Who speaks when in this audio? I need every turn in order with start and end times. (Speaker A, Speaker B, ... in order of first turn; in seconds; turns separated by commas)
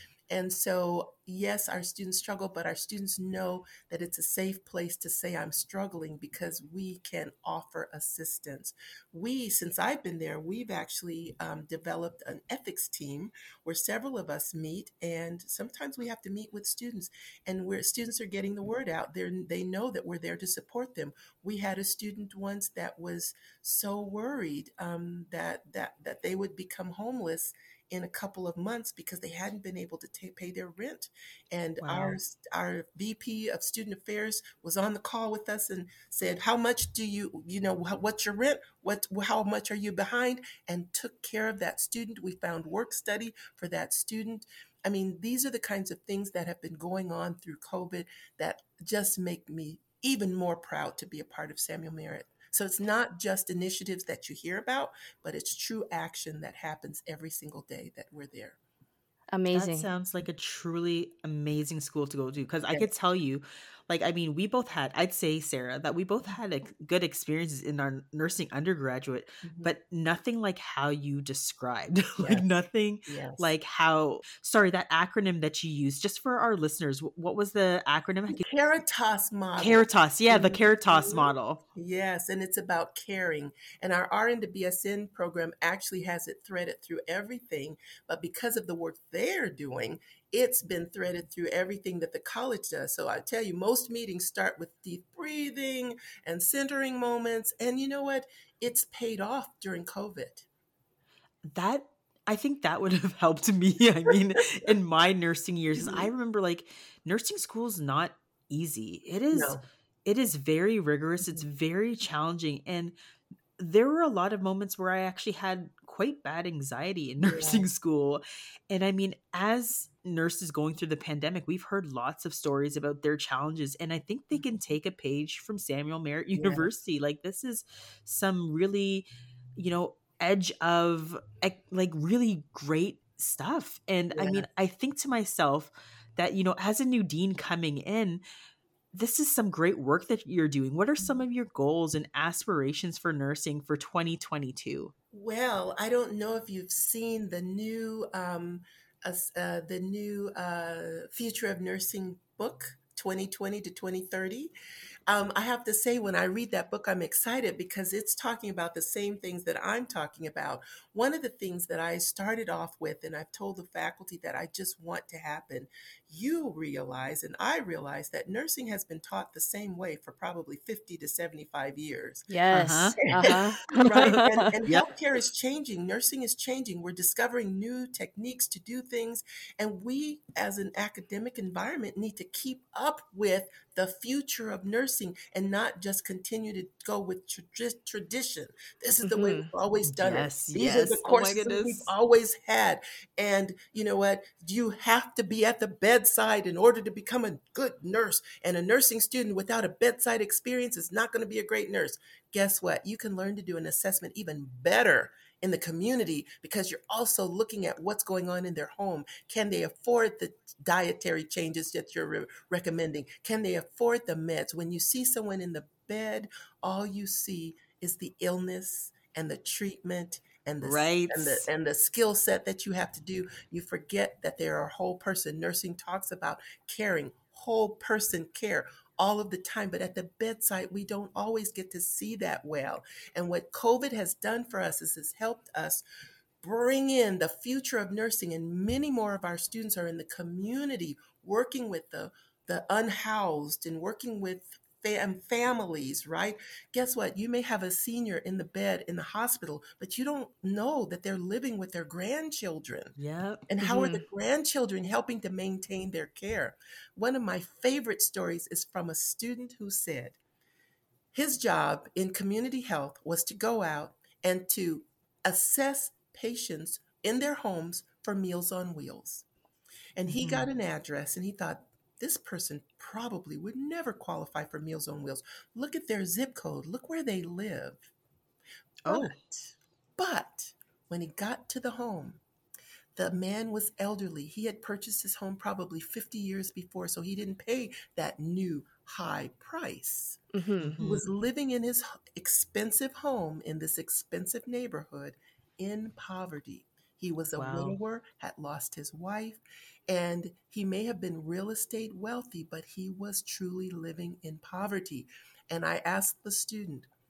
Speaker A: 0.3-58.6, Speaker B: 31.8-32.2, Speaker C: 59.3-59.9, Speaker B: 59.5-78.5, Speaker A: 69.4-69.7, Speaker A: 72.2-72.5, Speaker A: 73.1-73.5, Speaker A: 78.3-100.5, Speaker B: 79.6-81.6, Speaker B: 101.5-112.9, Speaker A: 105.8-106.1, Speaker A: 109.3-109.6, Speaker B: 113.6-138.2, Speaker A: 117.2-117.7, Speaker A: 126.3-126.7, Speaker A: 134.1-134.4, Speaker B: 138.9-144.9, Speaker A: 145.1-154.5, Speaker A: 155.1-172.3, Speaker C: 172.3-174.4, Speaker B: 172.5-173.0, Speaker A: 173.1-235.8, Speaker B: 174.0-174.9, Speaker C: 189.0-189.5, Speaker B: 189.8-191.9, Speaker B: 220.6-221.5, Speaker A: 236.4-252.9, Speaker B: 253.0-253.4, Speaker A: 253.5-260.2, Speaker C: 253.6-254.0, Speaker A: 261.1-269.3, Speaker A: 269.9-277.8, Speaker B: 270.1-270.5, Speaker B: 278.9-279.1, Speaker A: 278.9-282.2, Speaker A: 282.9-290.2, Speaker C: 290.3-290.8, Speaker B: 290.6-291.0, Speaker A: 290.8-306.9, Speaker B: 297.4-297.8